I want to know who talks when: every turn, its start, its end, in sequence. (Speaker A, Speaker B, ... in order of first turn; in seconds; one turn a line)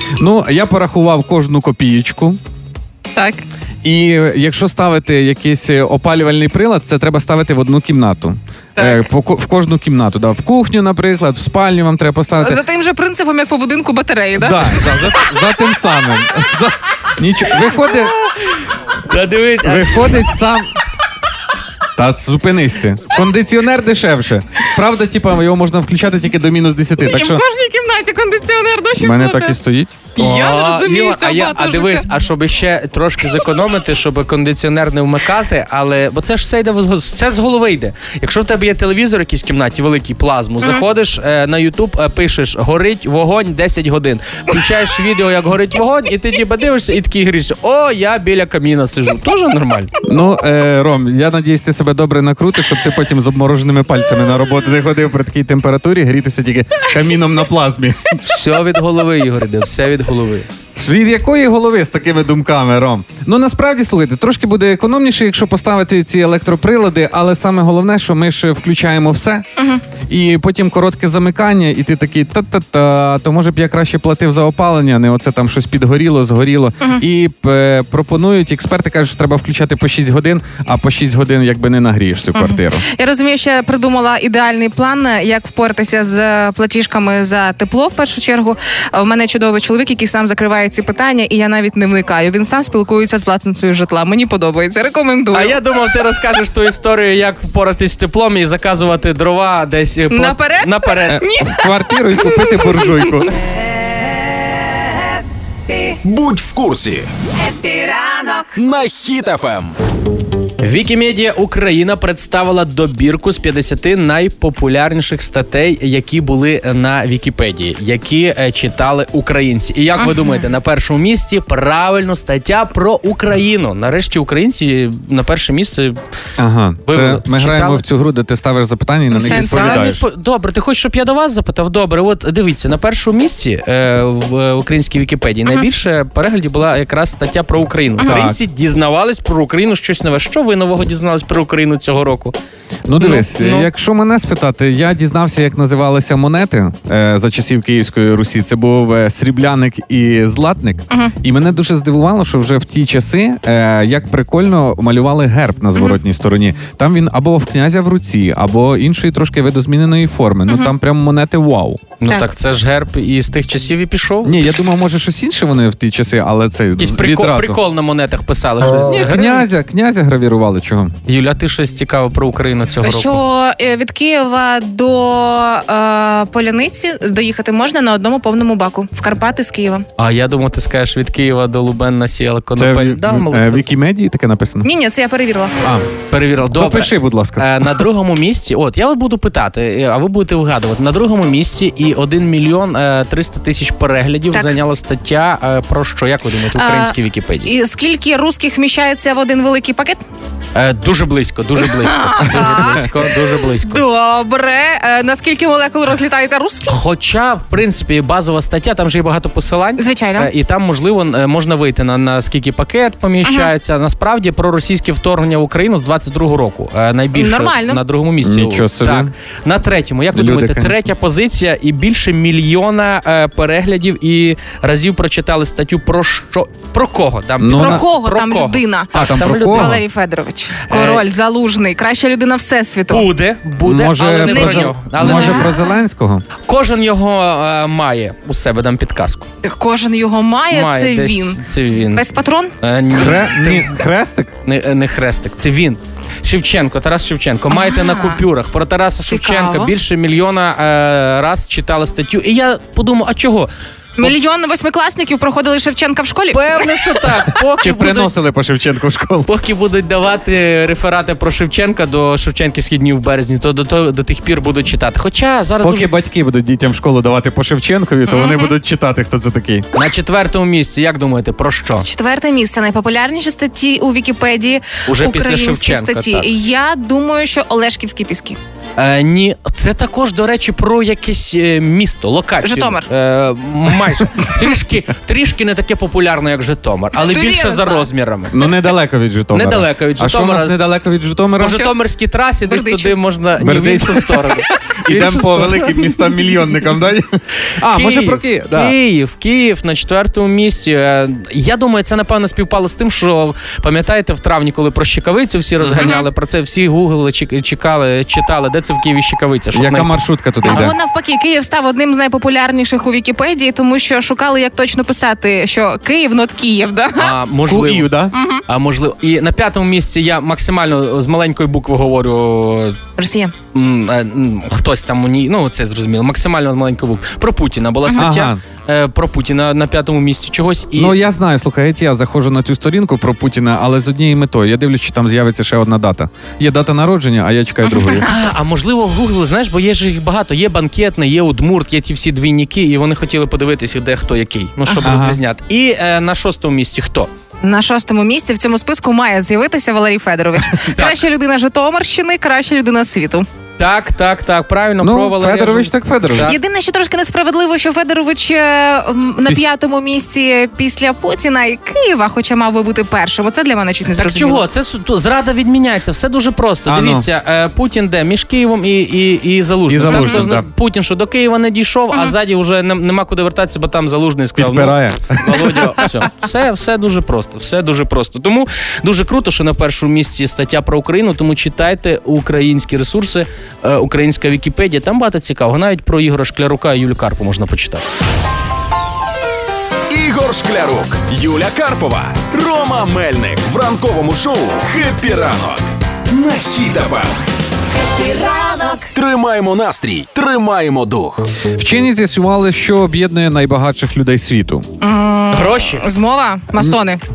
Speaker A: 0.2-2.4
Speaker B: 3.1-3.4
Speaker A: 3.8-12.6
Speaker B: 8.8-9.1
Speaker B: 12.4-14.8
Speaker A: 14.4-18.1
Speaker C: 17.7-20.3
Speaker A: 19.6-20.7
Speaker A: 22.0-27.4
Speaker B: 27.0-29.6
Speaker A: 29.0-30.1
Speaker B: 30.2-32.1
Speaker C: 30.2-49.9
Speaker A: 50.1-58.2
Speaker C: 58.2-60.5
Speaker A: 60.8-69.5
Speaker B: 69.6-69.8
Speaker A: 70.1-82.8
Speaker B: 82.3-95.6
Speaker C: 95.3-101.2
Speaker B: 100.1-103.2
Speaker A: 101.1-103.3
Speaker D: 105.7-106.0
Speaker E: 106.0-107.1
Speaker D: 107.4-108.5
Speaker E: 108.5-109.8
Speaker C: 110.6-126.0
Speaker B: 120.0-120.4
Speaker A: 126.4-130.0
Speaker C: 126.9-127.8
Speaker B: 129.1-129.9
Speaker C: 129.2-142.3
Speaker B: 138.0-138.3
Speaker A: 138.0-138.4
Speaker A: 142.9-161.8
Speaker C: 143.0-143.7
Speaker C: 162.0-164.4
Speaker A: 164.2-167.6
Speaker C: 166.8-169.5
Speaker A: 168.8-170.9
Speaker C: 171.1-173.2
Speaker B: 172.8-179.9
Speaker C: 180.0-183.7
Speaker A: 182.6-184.7
Speaker B: 184.6-185.6
Speaker A: 185.6-185.9
Speaker C: 186.1-197.5
Speaker A: 186.5-187.7
Speaker B: 196.6-196.9
Speaker B: 197.4-200.0
Speaker C: 200.6-203.8
Speaker B: 201.6-203.1
Speaker B: 203.7-206.8
Speaker C: 206.7-229.8
Speaker B: 209.8-210.3
Speaker B: 213.2-213.5
Speaker B: 217.2-217.8
Speaker A: 218.2-219.1
Speaker A: 220.1-220.8
Speaker A: 227.4-227.9
Speaker B: 227.5-233.1
Speaker A: 228.9-229.8
Speaker C: 230.7-231.1
Speaker C: 232.9-235.5
Speaker A: 233.6-236.2
Speaker B: 234.2-235.6
Speaker C: 236.5-239.3
Speaker B: 239.4-241.4
Speaker C: 240.5-242.1
Speaker B: 241.9-242.5
Speaker C: 242.6-243.8
Speaker A: 242.9-244.3
Speaker C: 244.4-253.5
Speaker B: 247.5-248.2
Speaker B: 249.1-249.7
Speaker B: 254.0-256.7
Speaker C: 256.3-258.1
Speaker A: 257.6-259.3
Speaker C: 259.3-265.9
Speaker A: 265.6-269.6
Speaker B: 268.1-268.5
Speaker C: 269.8-271.9
Speaker B: 271.8-278.4
Speaker C: 274.9-276.3
Speaker C: 278.8-288.4
Speaker B: 282.4-282.9
Speaker B: 287.0-287.9
Speaker A: 288.3-291.6
Speaker C: 289.3-290.7
Speaker C: 291.4-295.9
Speaker B: 292.5-293.0
Speaker A: 293.4-298.8
Speaker C: 297.6-310.7
Speaker A: 305.6-305.9
Speaker B: 305.8-306.1
Speaker A: 309.5-310.7
Speaker B: 310.4-317.1
Speaker C: 317.0-322.8
Speaker A: 317.5-318.1
Speaker B: 318.1-318.4
Speaker B: 323.0-323.3
Speaker C: 323.5-331.0
Speaker B: 327.9-328.1
Speaker A: 328.0-328.4
Speaker A: 330.8-338.1
Speaker B: 337.7-338.1
Speaker C: 338.1-347.1
Speaker A: 344.8-345.2
Speaker B: 347.4-353.3
Speaker C: 350.7-351.0
Speaker C: 353.6-356.4
Speaker A: 354.8-356.3
Speaker B: 356.2-364.4
Speaker C: 363.9-387.8
Speaker A: 366.7-367.1
Speaker A: 369.7-370.5
Speaker B: 369.9-370.2
Speaker A: 374.4-375.9
Speaker E: 389.9-397.2
Speaker D: 397.8-398.9
Speaker E: 398.9-401.3
Speaker A: 401.6-404.7
Speaker B: 404.8-407.0
Speaker C: 405.3-405.9